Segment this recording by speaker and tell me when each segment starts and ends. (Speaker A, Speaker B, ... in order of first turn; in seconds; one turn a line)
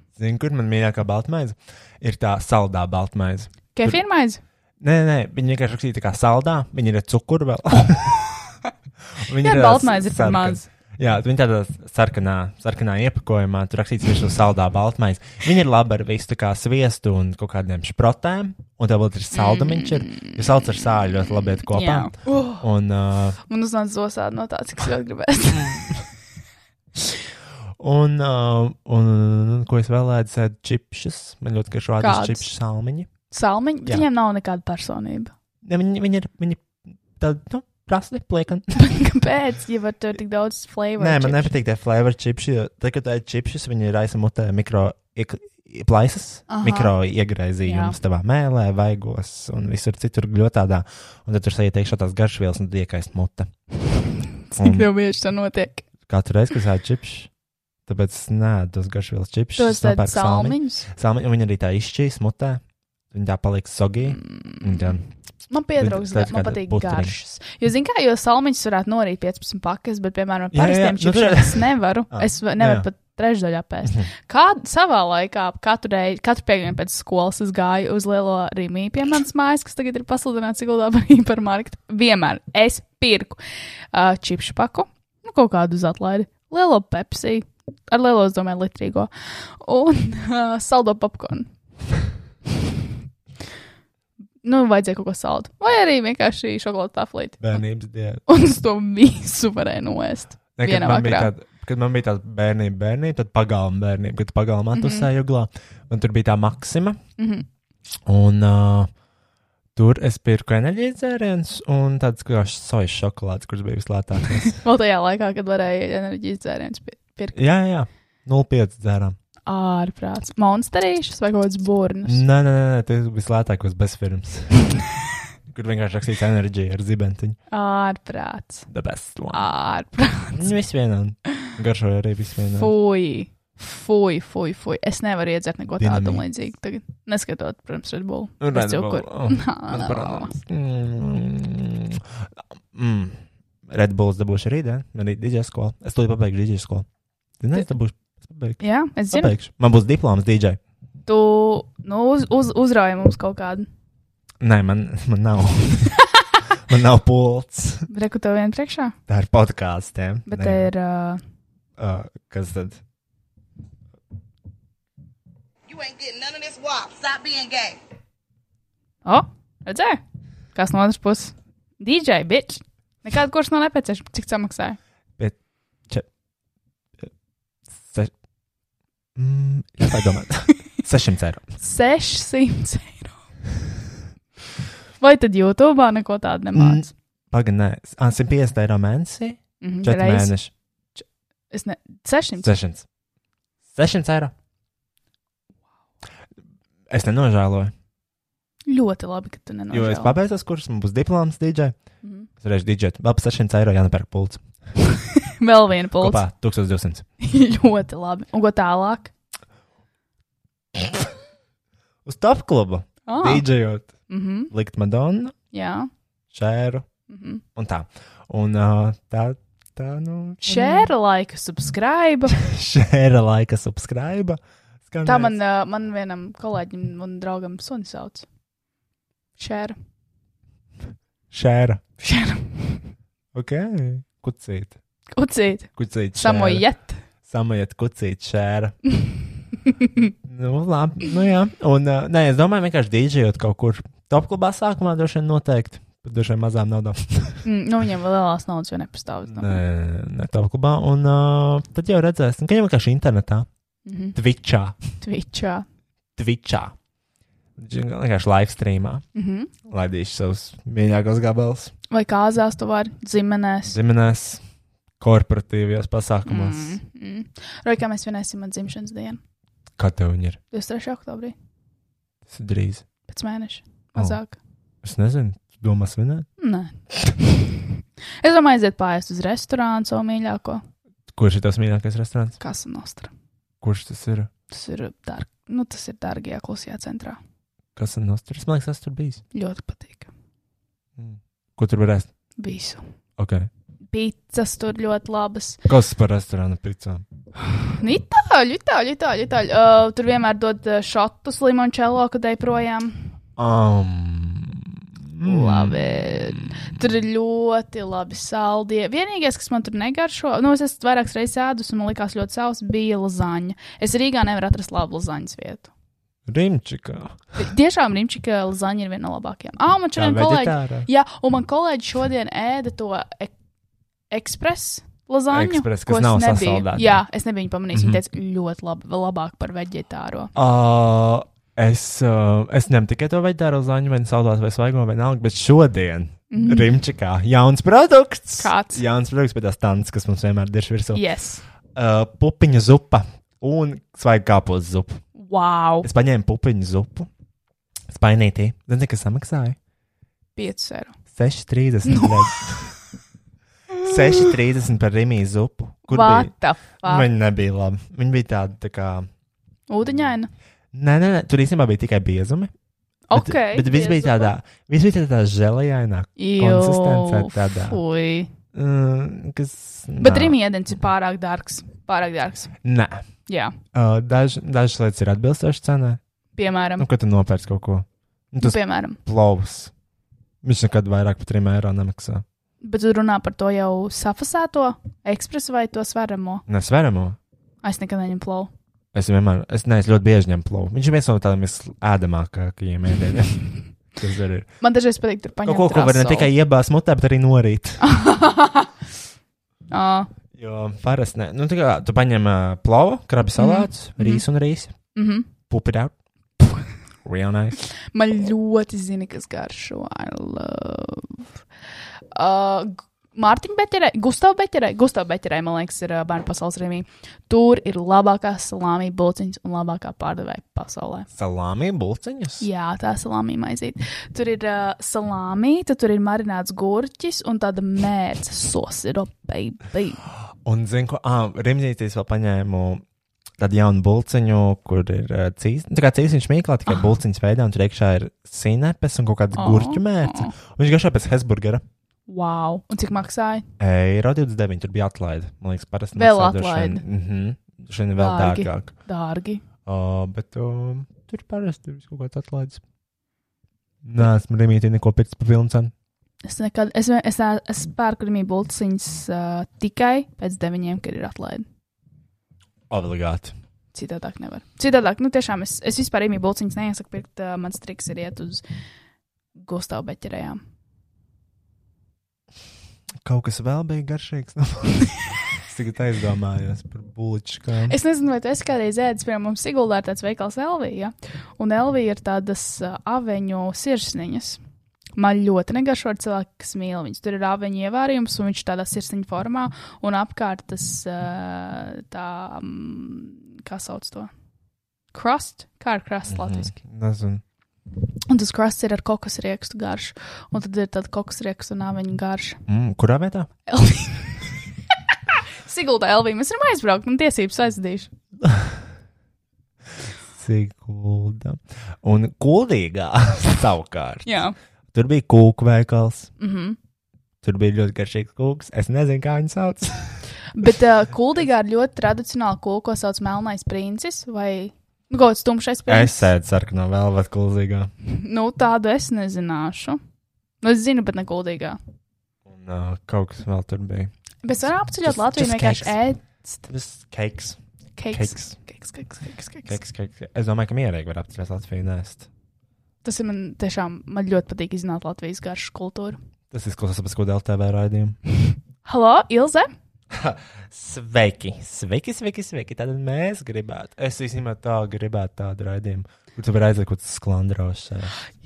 Speaker A: 0.1-4.0
Speaker B: 3.7-4.4
Speaker A: 4.8-8.4
Speaker A: 9.2-23.4
Speaker B: 9.4-10.6
Speaker B: 19.3-20.4
Speaker B: 21.7-22.6
Speaker B: 23.5-26.0
Speaker A: 27.8-33.1
Speaker B: 32.0-32.5
Speaker B: 33.3-35.3
Speaker A: 35.6-38.7
Speaker B: 38.7-41.5
Speaker A: 41.0-53.5
Speaker B: 46.5-46.9
Speaker B: 47.6-48.0
Speaker B: 54.5-55.9
Speaker A: 54.6-54.9
Speaker A: 56.0-57.3
Speaker A: 57.9-65.1
Speaker B: 59.6-60.9
Speaker B: 64.1-65.0
Speaker B: 65.5-83.4
Speaker A: 65.8-67.1
Speaker A: 70.5-72.9
Speaker A: 73.8-74.1
Speaker B: 83.9-91.5
Speaker B: 94.4-97.5
Speaker A: 97.4-98.2
Speaker B: 98.3-101.3
Speaker A: 100.6-107.0
Speaker B: 104.7-105.1
Speaker B: 107.2-107.5
Speaker A: 108.0-108.9
Speaker A: 109.7-114.6
Speaker B: 114.6-117.4
Speaker A: 117.3-119.2
Speaker B: 119.5-122.2
Speaker A: 122.0-124.8
Speaker A: 125.5-127.4
Speaker B: 127.5-128.7
Speaker A: 128.7-129.4
Speaker B: 129.3-130.5
Speaker A: 130.3-132.7
Speaker B: 132.6-140.3
Speaker A: 135.8-136.2
Speaker A: 138.4-146.8
Speaker A: 147.4-150.6
Speaker B: 148.6-149.3
Speaker B: 151.1-153.7
Speaker A: 154.4-156.0
Speaker A: 156.6-157.9
Speaker B: 157.9-158.9
Speaker A: 159.1-160.7
Speaker B: 160.3-161.2
Speaker A: 161.8-162.8
Speaker C: 165.7-167.8
Speaker B: 169.0-170.0
Speaker B: 170.5-174.8
Speaker A: 177.8-178.1
Speaker A: 179.2-181.4
Speaker B: 181.6-183.2
Speaker B: 185.0-186.8
Speaker A: 186.5-190.5
Speaker B: 189.6-190.3
Speaker B: 191.0-192.5
Speaker A: 192.4-192.8
Speaker A: 193.7-194.3
Speaker A: 196.9-197.7
Speaker B: 198.7-200.2
Speaker A: 199.7-201.7
Speaker B: 202.0-202.3
Speaker A: 202.4-204.4
Speaker B: 204.8-206.2
Speaker A: 206.0-207.0
Speaker B: 207.2-209.1
Speaker A: 210.8-211.1
Speaker A: 212.0-213.9
Speaker B: 213.1-213.5
Speaker B: 214.1-214.5
Speaker A: 214.5-215.3
Speaker B: 215.5-215.9
Speaker A: 216.3-216.9
Speaker B: 217.1-217.4
Speaker A: 217.6-220.9
Speaker B: 220.4-222.4
Speaker A: 222.3-225.4
Speaker B: 225.0-228.2
Speaker B: 229.4-229.8
Speaker A: 231.3-231.8
Speaker B: 232.0-232.8
Speaker A: 233.3-234.8
Speaker B: 235.1-237.0
Speaker A: 235.8-236.7
Speaker A: 237.2-238.8
Speaker B: 239.7-240.0
Speaker A: 240.2-247.4
Speaker B: 247.4-249.6
Speaker A: 249.3-253.5
Speaker B: 253.8-254.1
Speaker A: 254.1-254.8
Speaker B: 255.0-255.7
Speaker A: 256.1-256.7
Speaker A: 257.6-259.0
Speaker B: 259.1-259.5
Speaker A: 259.6-261.7
Speaker B: 261.9-263.8
Speaker A: 263.7-264.4
Speaker A: 265.0-266.8
Speaker B: 266.3-269.2
Speaker A: 269.8-270.4
Speaker B: 270.5-271.3
Speaker A: 272.3-272.8
Speaker B: 273.1-274.4
Speaker A: 274.8-276.3
Speaker B: 276.4-277.5
Speaker B: 278.2-280.6
Speaker A: 281.1-282.4
Speaker B: 282.4-283.1
Speaker A: 283.6-284.3
Speaker B: 284.5-287.2
Speaker A: 287.8-289.2
Speaker B: 289.3-290.1
Speaker A: 291.0-292.1
Speaker B: 292.4-292.8
Speaker A: 293.2-293.5
Speaker B: 293.9-295.6
Speaker A: 295.7-297.0
Speaker B: 297.5-303.1
Speaker A: 303.4-306.4
Speaker B: 305.2-315.7
Speaker A: 316.3-317.3
Speaker B: 317.4-323.3
Speaker A: 319.9-320.9
Speaker B: 324.1-330.3
Speaker A: 325.3-327.0
Speaker A: 327.7-328.0
Speaker A: 330.3-341.0
Speaker B: 336.3-336.7
Speaker B: 338.4-338.8
Speaker B: 340.9-341.4
Speaker A: 341.7-345.0
Speaker B: 345.1-345.9
Speaker A: 345.8-347.1
Speaker A: 347.9-349.6
Speaker B: 350.4-350.9
Speaker A: 351.1-352.8
Speaker B: 351.9-352.1
Speaker A: 353.8-359.1
Speaker B: 355.9-357.1
Speaker B: 359.7-360.3
Speaker A: 360.7-362.5
Speaker B: 363.1-364.3
Speaker A: 363.1-367.8
Speaker B: 366.2-368.3
Speaker A: 368.5-370.4
Speaker B: 370.0-372.5
Speaker A: 372.6-373.0
Speaker B: 373.3-373.6
Speaker A: 373.7-376.0
Speaker B: 376.3-376.9
Speaker A: 376.8-379.7
Speaker B: 378.4-379.0
Speaker A: 380.4-382.2
Speaker B: 382.6-386.4
Speaker A: 386.5-387.2
Speaker B: 387.6-388.5
Speaker A: 388.9-394.5
Speaker B: 394.6-396.3
Speaker A: 395.4-397.9
Speaker B: 397.8-398.7
Speaker B: 399.7-400.1
Speaker A: 400.3-404.7
Speaker B: 403.4-404.2
Speaker B: 404.9-405.3
Speaker A: 405.5-405.9
Speaker A: 407.0-407.6
Speaker B: 407.9-411.2
Speaker B: 412.1-421.1
Speaker A: 421.1-422.5
Speaker B: 422.4-430.0
Speaker A: 430.4-432.8
Speaker A: 433.4-441.6
Speaker B: 439.3-440.3
Speaker B: 442.1-443.4
Speaker A: 443.6-448.7
Speaker B: 445.9-446.8
Speaker B: 448.0-449.4
Speaker A: 449.6-452.6
Speaker A: 453.8-455.7
Speaker B: 456.2-461.4
Speaker A: 462.7-463.3
Speaker B: 463.7-468.4
Speaker B: 469.3-470.4
Speaker A: 473.0-477.8
Speaker B: 477.7-484.4
Speaker B: 484.9-494.1
Speaker B: 494.9-496.5
Speaker A: 496.1-497.2
Speaker B: 498.1-502.4
Speaker A: 502.5-503.3
Speaker B: 503.5-504.2
Speaker B: 504.9-507.9
Speaker A: 508.2-508.6
Speaker A: 510.2-514.1
Speaker B: 514.0-514.3
Speaker A: 514.7-516.1
Speaker B: 516.2-516.6
Speaker A: 517.2-520.0
Speaker B: 520.3-526.1
Speaker A: 525.7-527.7
Speaker B: 527.9-529.8
Speaker B: 530.4-531.6
Speaker A: 532.2-533.9
Speaker B: 534.2-536.4
Speaker A: 534.8-535.8
Speaker A: 536.5-537.4
Speaker B: 537.8-539.5
Speaker A: 537.9-538.3
Speaker A: 539.4-542.1
Speaker B: 542.8-546.0
Speaker A: 546.3-548.0
Speaker B: 548.6-549.5
Speaker A: 549.9-558.0